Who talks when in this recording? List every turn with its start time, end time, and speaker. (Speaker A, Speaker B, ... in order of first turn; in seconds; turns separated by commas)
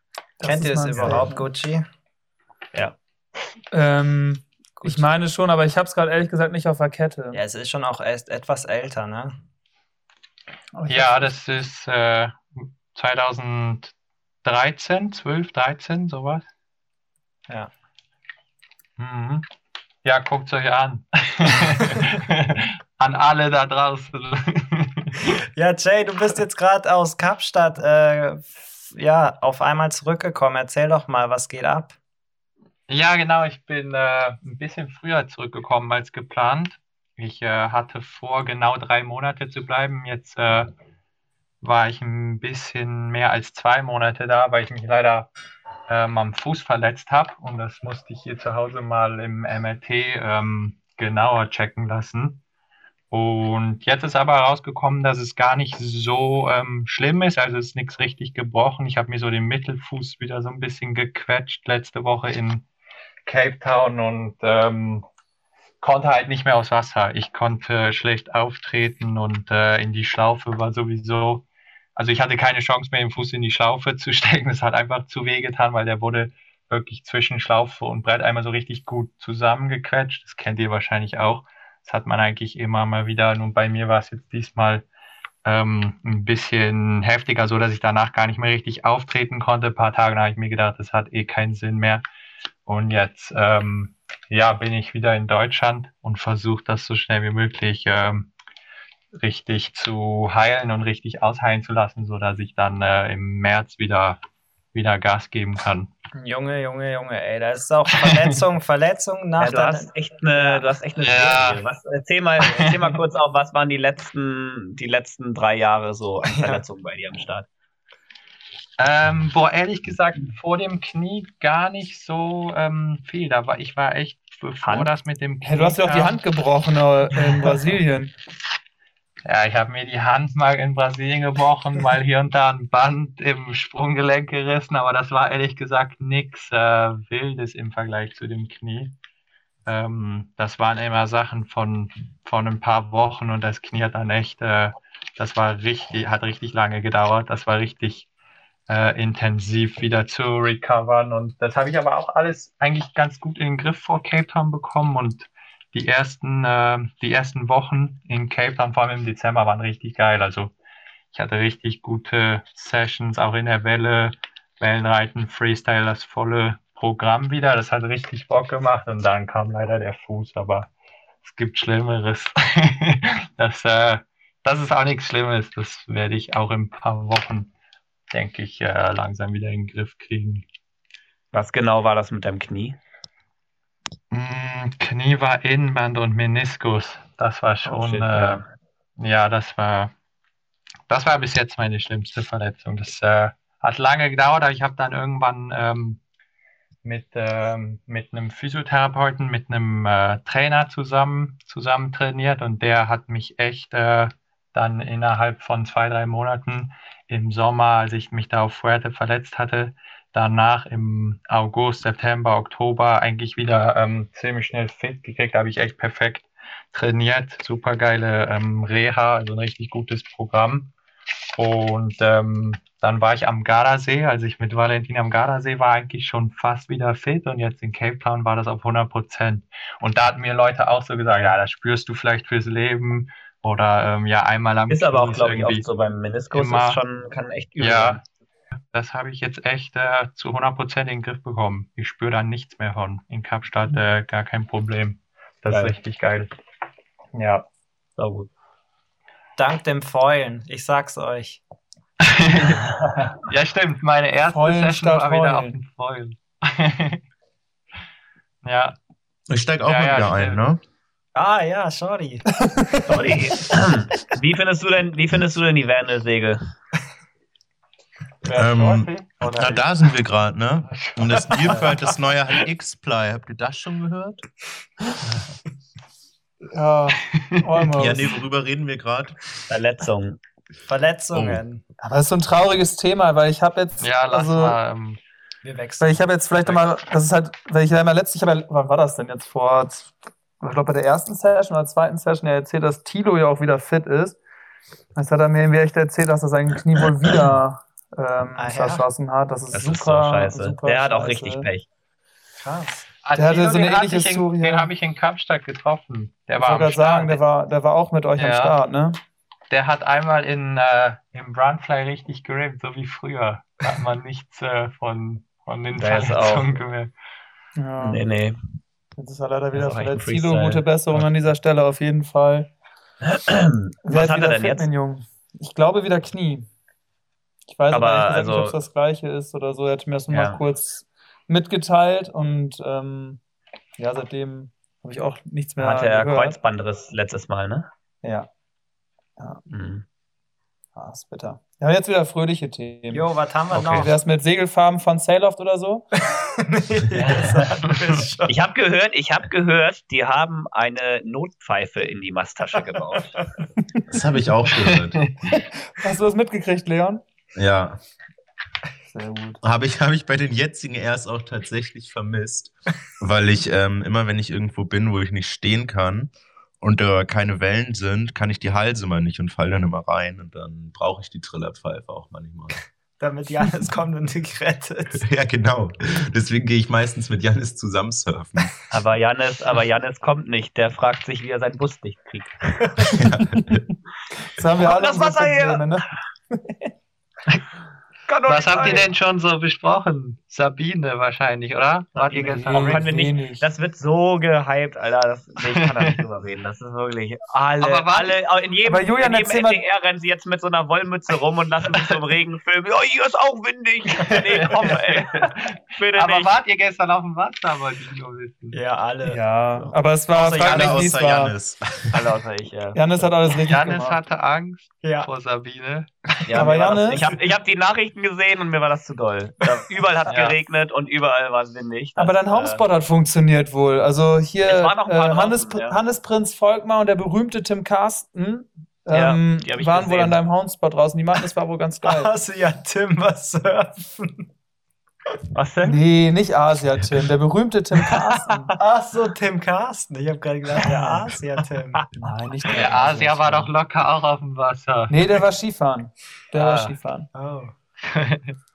Speaker A: 0.4-1.4, Speaker B: 0.4-1.8, Speaker A: 3.7-7.4, Speaker B: 4.8-5.0, Speaker B: 7.3-9.3, Speaker A: 10.7-11.3, Speaker C: 10.9-13.9, Speaker C: 14.4-16.4, Speaker C: 19.0-19.4, Speaker C: 20.0-25.2, Speaker B: 25.5-31.9, Speaker C: 32.9-40.7, Speaker C: 41.6-45.3, Speaker C: 45.9-52.4, Speaker C: 53.1-62.6, Speaker C: 63.2-65.0, Speaker C: 65.8-71.4, Speaker C: 72.0-84.8, Speaker C: 85.4-92.0, Speaker C: 92.7-98.3, Speaker C: 99.1-104.2, Speaker C: 104.7-105.9, Speaker B: 106.1-110.7, Speaker D: 109.4-117.5, Speaker C: 111.0-111.6, Speaker C: 112.4-112.8, Speaker B: 116.3-116.6, Speaker C: 118.8-126.2, Speaker D: 124.6-124.9, Speaker A: 125.4-128.1, Speaker C: 129.2-138.9, Speaker C: 139.7-148.1, Speaker C: 148.7-160.5, Speaker C: 161.1-170.7, Speaker C: 171.2-177.5, Speaker C: 178.1-180.4, Speaker D: 181.3-182.8, Speaker C: 184.1-188.4, Speaker D: 187.6-188.5, Speaker C: 189.0-189.9, Speaker C: 190.9-196.0, Speaker C: 196.8-220.7, Speaker C: 221.3-235.7, Speaker D: 231.1-231.4, Speaker D: 234.7-238.0, Speaker C: 236.3-236.8, Speaker C: 237.6-238.0, Speaker C: 238.7-246.3, Speaker C: 247.1-247.4, Speaker D: 248.0-248.3, Speaker B: 249.4-251.4, Speaker C: 252.0-252.6, Speaker D: 252.6-253.1, Speaker C: 253.2-257.0, Speaker A: 254.3-255.5, Speaker C: 258.4-258.7, Speaker E: 259.3-260.6, Speaker C: 259.6-260.4, Speaker B: 261.1-263.2, Speaker D: 262.9-266.4, Speaker C: 268.2-269.7, Speaker E: 268.3-274.2, Speaker C: 270.7-271.9, Speaker C: 275.1-275.3, Speaker A: 276.5-278.1, Speaker C: 277.1-277.4, Speaker E: 277.8-279.2, Speaker D: 279.5-280.2, Speaker B: 280.7-281.6, Speaker E: 281.1-281.4, Speaker A: 281.8-284.6, Speaker C: 283.8-285.0, Speaker B: 285.4-286.5, Speaker A: 285.8-294.2, Speaker A: 294.9-301.5, Speaker B: 298.4-298.9, Speaker D: 299.5-301.6, Speaker B: 302.4-302.9, Speaker C: 303.0-307.2, Speaker A: 303.1-304.7, Speaker A: 306.4-309.0, Speaker C: 308.2-308.6, Speaker C: 309.5-316.9, Speaker D: 315.7-316.5, Speaker A: 317.6-318.0, Speaker D: 317.8-318.4, Speaker A: 319.0-322.5, Speaker D: 319.5-321.1, Speaker D: 323.1-324.6, Speaker A: 323.8-326.5, Speaker A: 327.5-333.2, Speaker D: 327.7-328.6, Speaker D: 330.1-330.4, Speaker A: 333.8-336.4, Speaker D: 335.6-337.7, Speaker A: 338.0-338.3, Speaker D: 339.5-339.8, Speaker A: 340.8-343.0, Speaker B: 342.9-343.9, Speaker D: 343.5-343.9, Speaker A: 343.7-345.8, Speaker B: 346.1-348.3, Speaker D: 347.0-347.5, Speaker D: 348.3-353.1, Speaker E: 353.9-355.1, Speaker A: 355.7-357.0, Speaker E: 357.4-357.8, Speaker A: 358.9-359.4, Speaker E: 359.4-372.6, Speaker B: 373.0-375.0, Speaker E: 375.0-378.5, Speaker D: 378.7-382.6, Speaker E: 382.9-383.6, Speaker A: 384.4-385.8, Speaker D: 384.6-385.7, Speaker D: 388.1-388.9, Speaker C: 388.2-392.9, Speaker B: 388.6-388.8, Speaker D: 391.9-406.3, Speaker A: 392.5-393.4, Speaker C: 395.5-395.9, Speaker C: 397.6-398.2, Speaker A: 398.7-399.6, Speaker C: 404.0-408.6, Speaker B: 408.5-409.2, Speaker A: 409.1-411.3, Speaker B: 410.1-410.9, Speaker E: 410.2-411.8, Speaker D: 411.9-413.1, Speaker A: 412.7-414.0, Speaker C: 413.4-415.9, Speaker B: 414.8-415.1, Speaker B: 416.2-416.8, Speaker D: 416.3-422.6, Speaker A: 416.3-417.1, Speaker C: 420.1-420.3, Speaker A: 422.0-432.1, Speaker D: 424.4-425.8, Speaker D: 428.9-430.2, Speaker B: 431.8-434.2, Speaker D: 435.3-435.8, Speaker A: 435.6-438.5, Speaker B: 438.5-441.8, Speaker A: 440.6-441.0, Speaker A: 442.0-443.5, Speaker C: 442.4-444.9, Speaker A: 444.9-447.1, Speaker C: 446.3-446.8, Speaker B: 447.1-447.5, Speaker C: 447.8-448.3